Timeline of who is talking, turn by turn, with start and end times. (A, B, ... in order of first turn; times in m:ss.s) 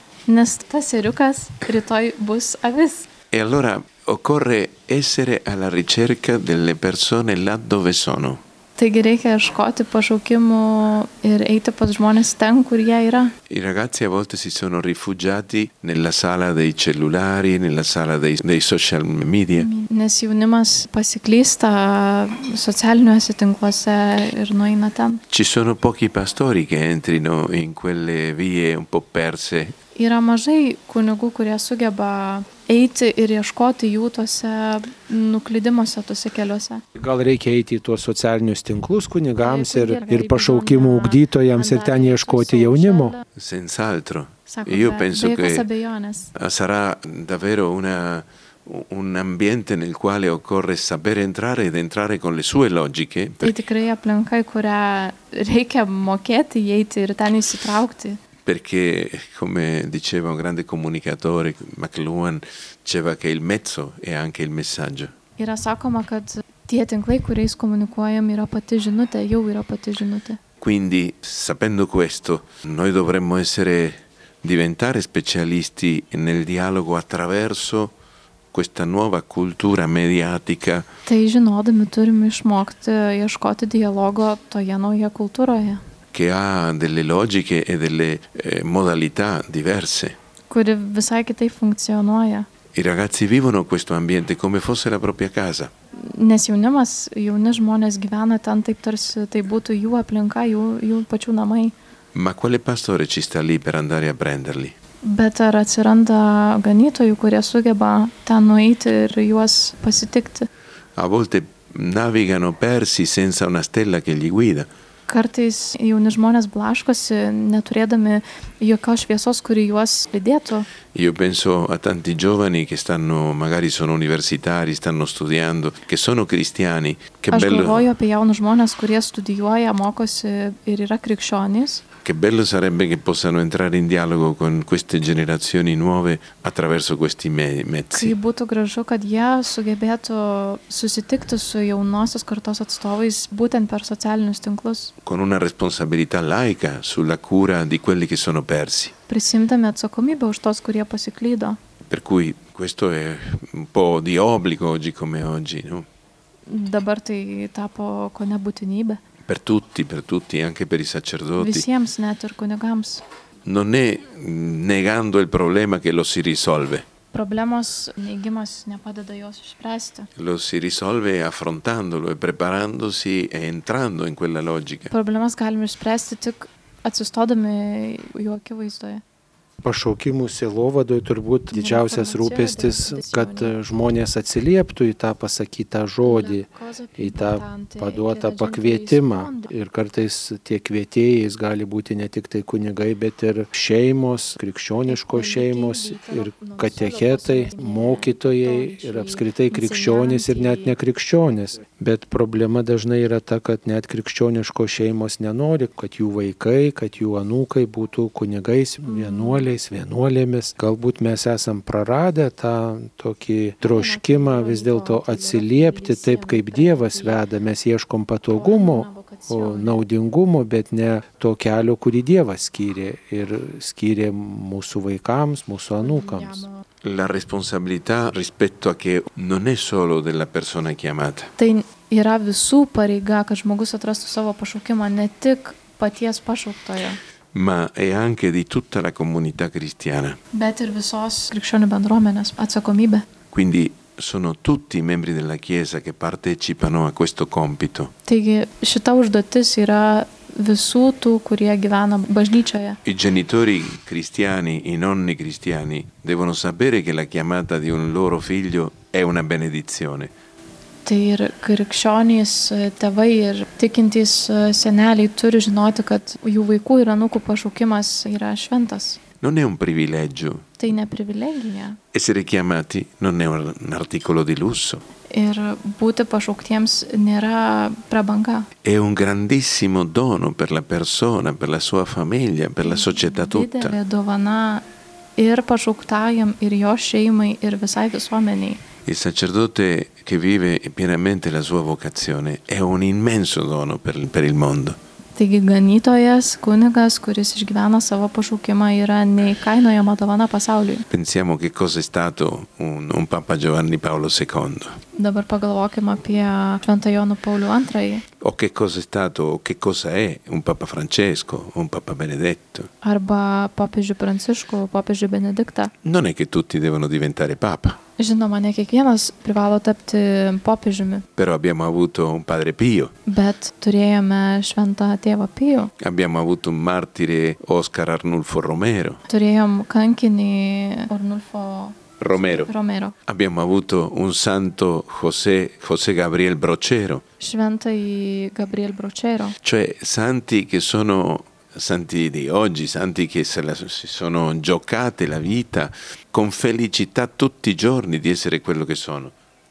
0:00.3-0:03.1 A
0:03.3-0:08.4 B
0:08.8-0:13.3 A
0:13.5-0:19.7 B
0:19.6-0:25.2 A
0:25.3-0:29.7 B
0:30.0-0:36.8 A
0:37.0-0:43.1 C
0:39.4-0:43.2 A
0:43.4-0:45.7 B
0:44.5-0:46.3 A
0:46.3-0:53.6 B
0:53.4-0:58.2 A
0:58.4-1:05.1 B
1:05.4-1:10.4 A
1:10.6-1:17.9 B
1:18.5-1:20.9 B
1:21.0-1:25.8 A
1:26.1-1:30.2 B
1:30.5-1:32.5 A
1:32.7-1:35.7 B
1:36.0-1:41.7 A
1:42.1-1:44.7 B
1:45.0-1:50.5 A
1:51.0-1:54.7 B
1:55.1-2:00.7 A
2:00.9-2:07.9 B
2:07.3-2:11.8 A
2:12.0-2:18.1 B
2:17.9-2:24.9 A
2:25.0-2:28.9 B
2:29.1-2:31.6 A
2:31.9-2:35.8 B
2:36.5-2:39.0 A
2:39.2-2:41.6 B
2:41.4-2:43.0 A
2:43.4-2:46.8 B
2:47.1-2:50.1 A
2:50.2-2:54.9 B
2:54.9-2:59.0 A
2:59.6-3:46.4 C
3:01.5-3:03.5 A
3:06.0-3:09.5 A
3:14.8-3:20.8 A
3:28.8-3:29.5 A
3:33.6-3:37.2 A
3:38.3-3:39.8 A
3:45.8-3:46.6 A
3:46.8-3:51.3 B
3:51.4-3:57.0 A
3:57.3-4:00.2 B
4:00.3-4:03.0 A
4:03.3-4:07.9 B
4:08.1-4:12.8 A
4:12.8-4:20.1 B
4:20.8-4:29.0 A
4:29.2-4:30.4 B
4:30.6-4:31.8 A
4:31.9-4:34.8 B
4:35.1-4:38.5 A
4:38.6-4:43.8 B
4:42.6-4:44.6 A
4:45.2-4:48.6 A
4:48.8-4:54.8 B
4:55.2-5:00.8 A
5:00.9-5:04.8 B
5:05.0-5:08.0 A
5:08.2-5:12.7 B
5:12.8-5:15.7 A
5:15.8-5:17.8 B
5:18.0-5:21.0 A
5:21.2-5:22.9 B
5:23.0-5:25.7 A
5:25.8-5:29.0 B
5:29.1-5:32.9 A
5:32.0-5:32.5 B
5:33.0-5:37.0 B
5:37.2-5:39.4 A
5:39.4-5:49.1 B